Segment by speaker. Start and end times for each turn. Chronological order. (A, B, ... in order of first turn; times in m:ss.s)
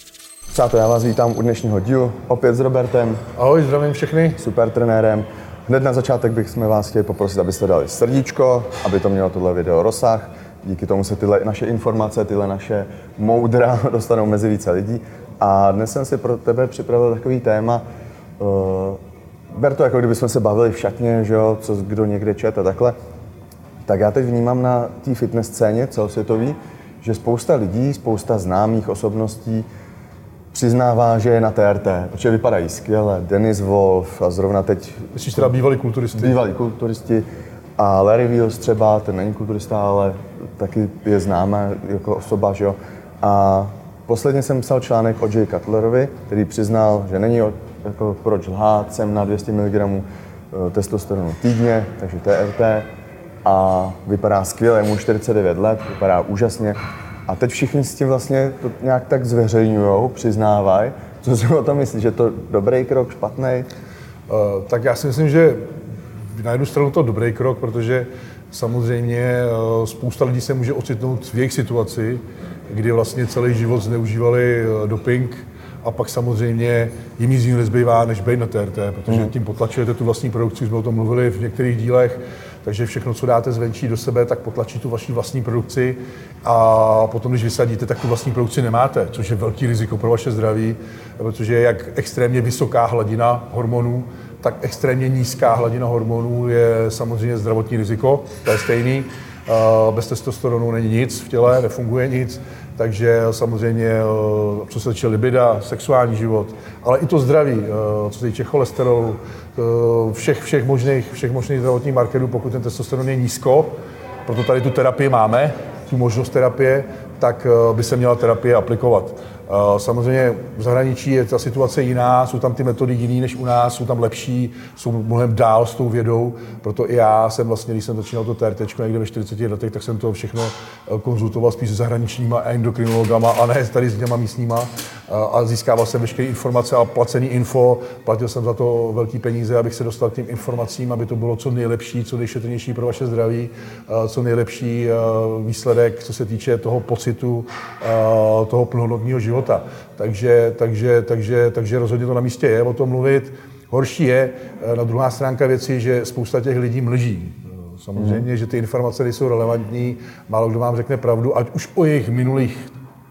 0:00.5-0:03.2 A
0:03.4-0:04.4 B
0:04.4-0:17.8 A
0:18.4-0:23.0 A
0:23.8-0:29.7 A
0:30.5-0:35.5 A
0:35.1-0:36.4 B
0:36.1-0:37.2 A
0:37.8-0:52.9 A
0:53.4-1:03.7 A
1:04.3-1:05.7 B
1:06.3-1:53.7 B
1:54.3-2:42.7 B
2:38.0-2:38.2 A